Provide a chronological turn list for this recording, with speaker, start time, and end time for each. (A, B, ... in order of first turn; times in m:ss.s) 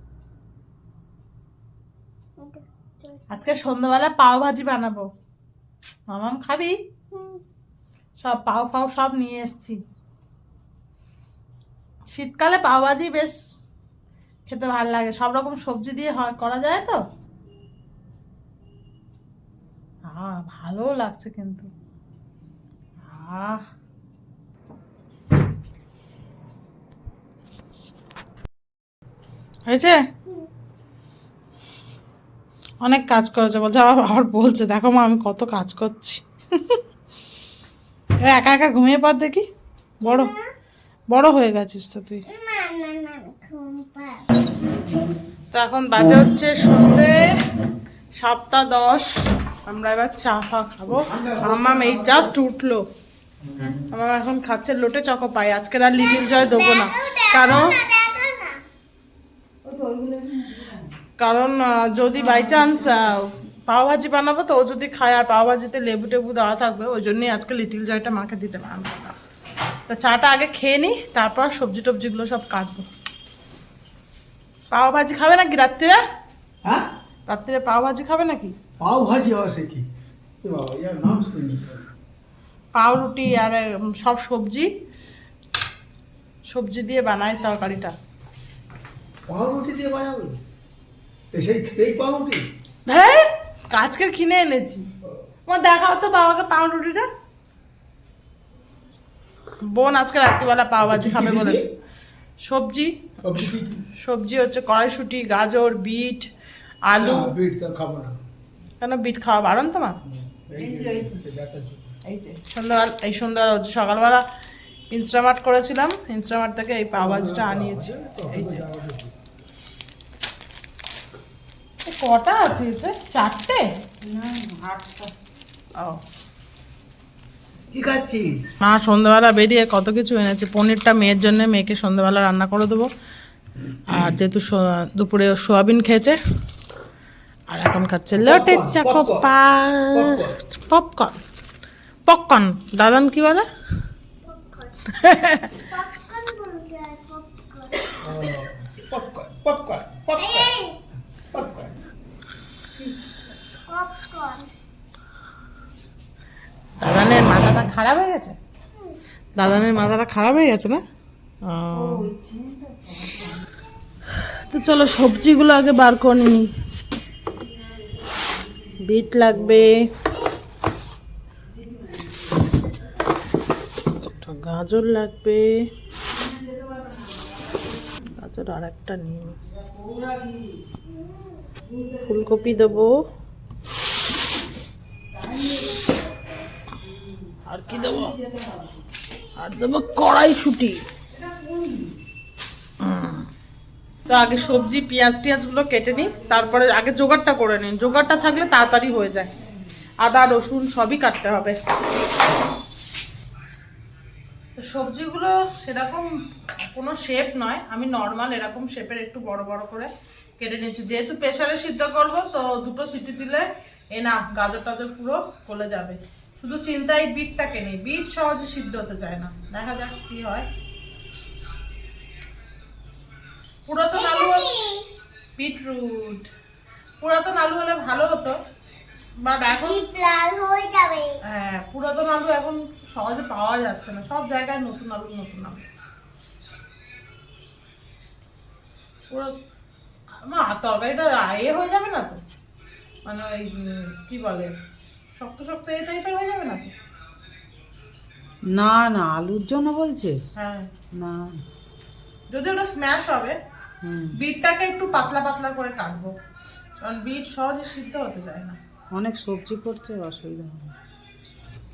0:02.4-0:03.2 A
0:03.3-0:05.1 B
0:06.1-0:06.8 B
0:07.1-0:07.4 A
0:08.2-0:09.8 B
0:12.1-0:13.4 B
0:14.5-0:17.0 B
0:20.1-0:21.7 B
0:23.0-0:23.6 B
0:29.7-0:30.0 B
0:32.8-0:36.8 B
0:38.2-0:39.4 B
0:40.0-0:40.3 B
0:40.0-0:40.5 A
0:41.1-0:42.2 B
0:42.3-0:44.3 A
0:45.5-0:47.3 B
0:48.2-0:49.1 B
0:49.7-0:52.8 B
0:51.0-0:52.3 C
0:53.4-0:53.9 C
0:53.9-0:57.8 B
0:56.3-0:58.6 A
0:59.6-1:00.9 D
1:01.2-1:09.2 B
1:02.2-1:03.1 D
1:09.9-1:12.9 B
1:14.7-1:16.0 B
1:17.3-1:18.5 B
1:18.8-1:19.8 C
1:20.4-1:21.8 C
1:22.7-1:24.7 B
1:26.5-1:27.9 B
1:29.3-1:30.4 C
1:31.3-1:32.4 C
1:32.9-1:34.8 B
1:35.5-1:37.1 B
1:39.6-1:41.6 B
1:40.8-1:41.7 C
1:42.4-1:43.0 B
1:43.2-1:43.8 C
1:44.0-1:46.3 B
1:46.9-1:47.3 B
1:46.9-1:48.2 C
1:48.8-1:50.0 B
1:50.0-1:52.0 C
1:50.6-1:51.2 D
1:52.0-1:54.2 B
1:54.9-1:58.6 B
1:56.9-1:59.1 C
2:01.8-2:03.6 B
2:04.0-2:05.1 D
2:07.7-2:08.5 C
2:08.6-2:12.9 B
2:13.9-2:16.2 B
2:17.5-2:21.2 B
2:18.1-2:19.3 C
2:19.9-2:20.4 C
2:22.1-2:23.5 B
2:24.2-2:24.9 A
2:25.0-2:25.5 B
2:25.6-2:27.9 A
2:28.0-2:30.5 C
2:30.2-2:30.8 A
2:31.3-2:31.8 C
2:33.7-2:34.5 A
2:36.8-2:38.4 B
2:39.4-2:40.8 B
2:41.4-2:42.1 B
2:41.7-2:43.5 D
2:44.5-2:46.5 B
2:47.3-2:49.6 D
2:48.8-2:49.9 B
2:51.5-2:52.6 D
2:54.1-2:55.6 B
2:56.0-2:58.1 D
2:58.2-2:59.4 B
2:59.4-3:00.6 D
3:00.8-3:01.5 A
3:01.6-3:02.8 D
3:02.1-3:03.0 B
3:05.1-3:06.1 D
3:06.8-3:08.8 D
3:07.5-3:08.1 B
3:09.4-3:10.8 B
3:11.1-3:11.9 D
3:12.8-3:13.3 B
3:14.1-3:19.3 B
3:15.9-3:16.7 D
3:18.0-3:18.6 D
3:20.0-3:21.6 B
3:24.6-3:26.0 B
3:26.7-3:40.5 B
3:43.7-3:44.5 B
3:43.9-3:44.9 A
3:45.4-3:46.3 B
3:47.0-3:48.4 B
3:49.2-3:49.8 B
3:49.5-3:51.2 A
3:51.2-3:55.6 B
4:00.2-4:02.2 B
4:03.0-4:04.5 B
4:05.2-4:06.7 B
4:08.5-4:10.2 D
4:10.4-4:10.7 B
4:10.9-4:11.4 D
4:12.3-4:13.4 B
4:13.8-4:14.2 D
4:14.1-4:16.1 B
4:16.8-4:18.6 B
4:18.9-4:20.7 D